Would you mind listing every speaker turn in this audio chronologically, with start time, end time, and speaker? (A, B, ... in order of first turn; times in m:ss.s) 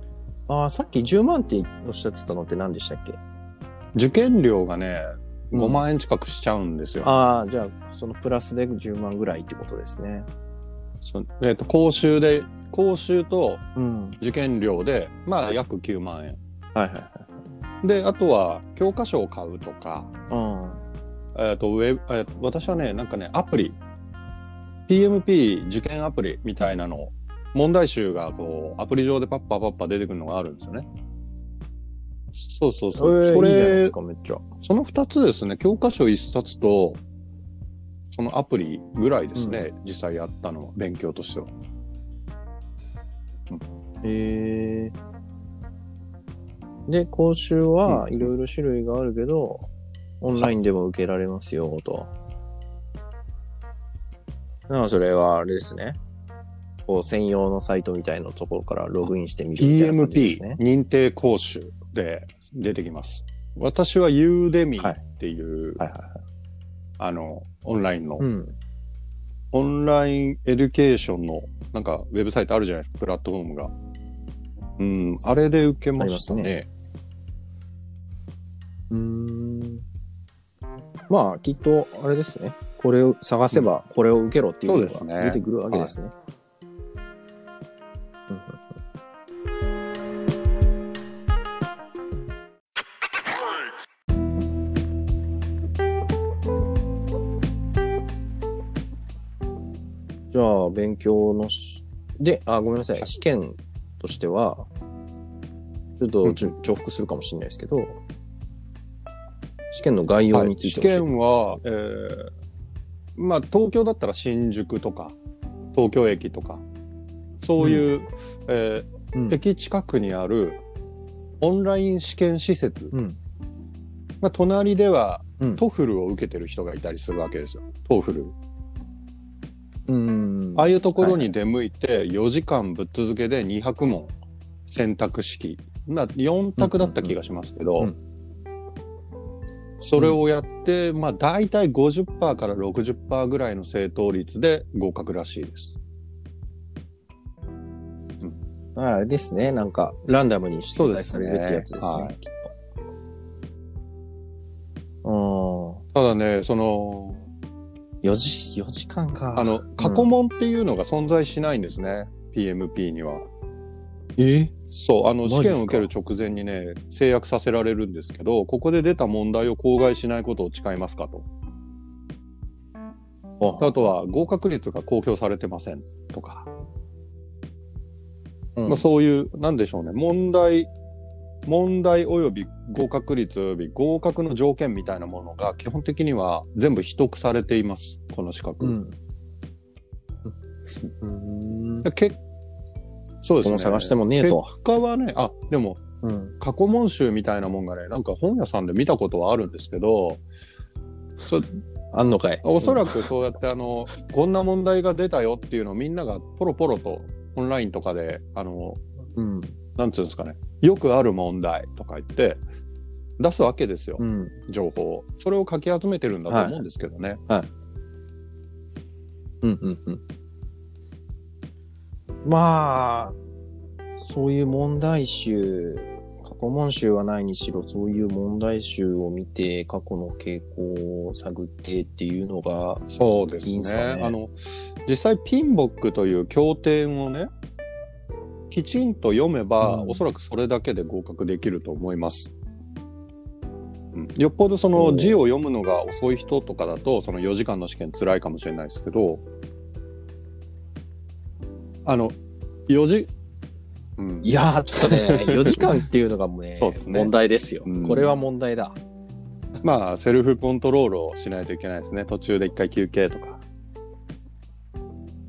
0:00.5-0:03.2 A
0:04.0-0:07.2 B
0:05.5-0:05.8 A
0:07.0-0:10.3 A
0:11.0-0:13.6 B
0:13.8-0:14.2 A
0:14.2-0:16.4 B
0:16.8-0:17.4 A
0:17.8-0:20.1 B
0:20.3-0:20.8 A
0:21.4-0:23.8 B
0:24.9-0:30.9 B
0:32.4-0:33.9 B
0:33.0-0:34.4 A
0:34.6-0:37.0 B
0:38.1-0:41.5 B
0:39.4-0:39.6 A
0:44.0-0:45.0 A
0:46.9-0:49.7 A
0:47.9-0:48.3 B
0:50.2-0:52.1 A
0:54.7-0:56.0 A
0:56.9-1:00.6 A
0:59.6-1:05.8 B
1:05.8-1:06.2 A
1:07.0-1:08.2 B
1:08.2-1:08.6 A
1:09.5-1:13.7 B
1:14.8-1:16.7 B
1:16.0-1:16.6 A
1:18.9-1:19.9 A
1:21.1-1:26.1 A
1:24.6-1:26.0 B
1:28.3-1:28.6 A
1:40.3-1:44.7 A
1:46.0-1:48.0 A
1:46.2-1:46.5 B
1:49.7-1:51.6 A
1:50.3-1:52.3 B
1:53.2-1:55.2 B
1:55.7-1:56.6 B
1:57.4-2:00.6 B
1:57.6-1:57.9 A
2:01.4-2:02.9 B
2:02.9-2:03.2 A
2:04.2-2:08.4 B
2:09.9-2:11.3 A
2:10.6-2:14.1 B
2:14.7-2:17.9 B
2:16.6-2:17.2 A
2:19.8-2:25.8 B
2:28.8-2:32.5 A
2:30.8-2:32.2 B
2:35.0-2:35.8 A
2:35.9-2:37.2 B
2:38.0-2:40.1 A
2:39.4-2:43.3 B
2:44.2-2:44.6 A
2:44.7-2:51.3 B
2:45.2-2:45.9 A
2:53.4-2:53.9 A
2:53.6-2:56.5 B
2:58.6-2:58.9 A
2:58.7-3:00.7 B
3:01.5-3:08.8 B
3:08.6-3:09.0 A
3:11.0-3:11.9 A
3:11.8-3:12.2 B
3:13.2-3:15.8 B
3:13.4-3:14.5 A
3:16.0-3:16.4 A
3:16.4-3:20.2 B
3:21.9-3:23.1 A
3:22.4-3:28.8 B
3:29.2-3:29.6 A
3:29.8-3:32.4 B
3:33.2-3:37.2 B
3:34.0-3:34.4 A
3:36.3-3:36.6 A
3:39.4-3:40.0 A
3:42.2-3:43.2 A
3:44.0-3:52.8 A
3:52.9-3:57.3 B
3:53.4-3:54.2 A
3:58.5-4:02.3 B
3:59.6-4:00.0 A
4:03.9-4:09.2 B
4:04.8-4:05.2 A
4:11.8-4:12.2 B
4:12.7-4:13.1 B
4:14.0-4:15.7 B
4:14.2-4:18.8 A
4:16.6-4:17.1 B
4:17.7-4:18.2 B
4:19.6-4:23.4 B